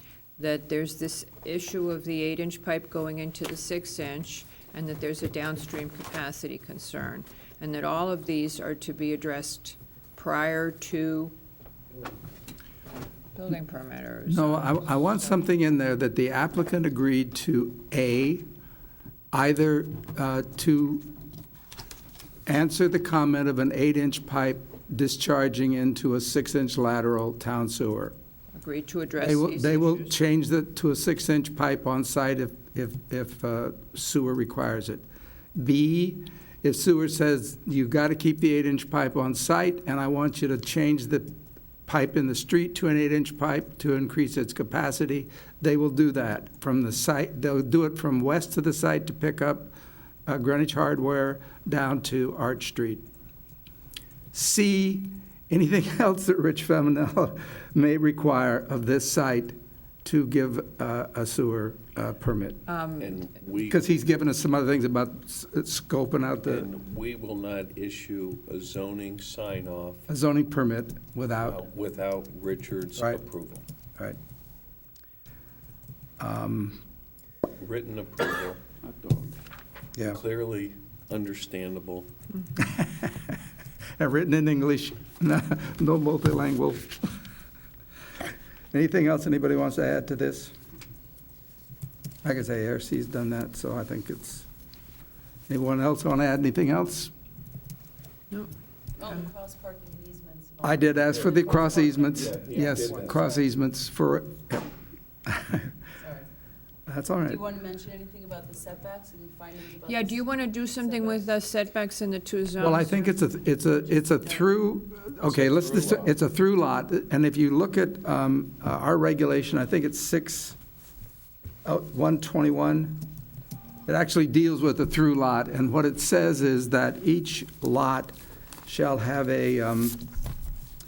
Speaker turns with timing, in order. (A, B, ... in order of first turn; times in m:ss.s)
0:00.4-0:11.4 A
0:13.4-0:15.4 A
0:14.3-0:18.5 B
0:19.3-0:21.1 B
0:22.5-0:28.2 B
0:28.6-0:30.2 A
0:29.2-0:35.0 B
0:35.6-0:41.4 B
0:41.9-0:49.7 B
0:50.3-0:53.0 B
0:54.3-1:02.6 B
1:02.7-1:03.2 A
1:03.0-1:03.9 C
1:03.7-1:06.6 B
1:06.4-1:10.1 C
1:10.1-1:11.6 B
1:11.4-1:13.6 C
1:16.2-1:16.8 B
1:17.6-1:19.4 C
1:20.0-1:22.1 C
1:22.6-1:23.2 B
1:24.0-1:27.1 B
1:28.7-1:30.6 B
1:32.2-1:34.5 B
1:35.5-1:37.1 B
1:39.0-1:43.4 D
1:40.6-1:44.7 B
1:42.1-1:43.2 C
1:45.3-1:45.7 B
1:46.0-1:46.3 D
1:46.9-1:47.4 B
1:47.2-1:51.3 D
1:49.8-1:53.1 A
1:52.6-2:00.6 B
1:53.6-1:54.5 D
1:55.2-1:56.2 C
2:01.6-2:03.1 B
2:03.9-2:08.2 B
2:08.7-2:10.1 B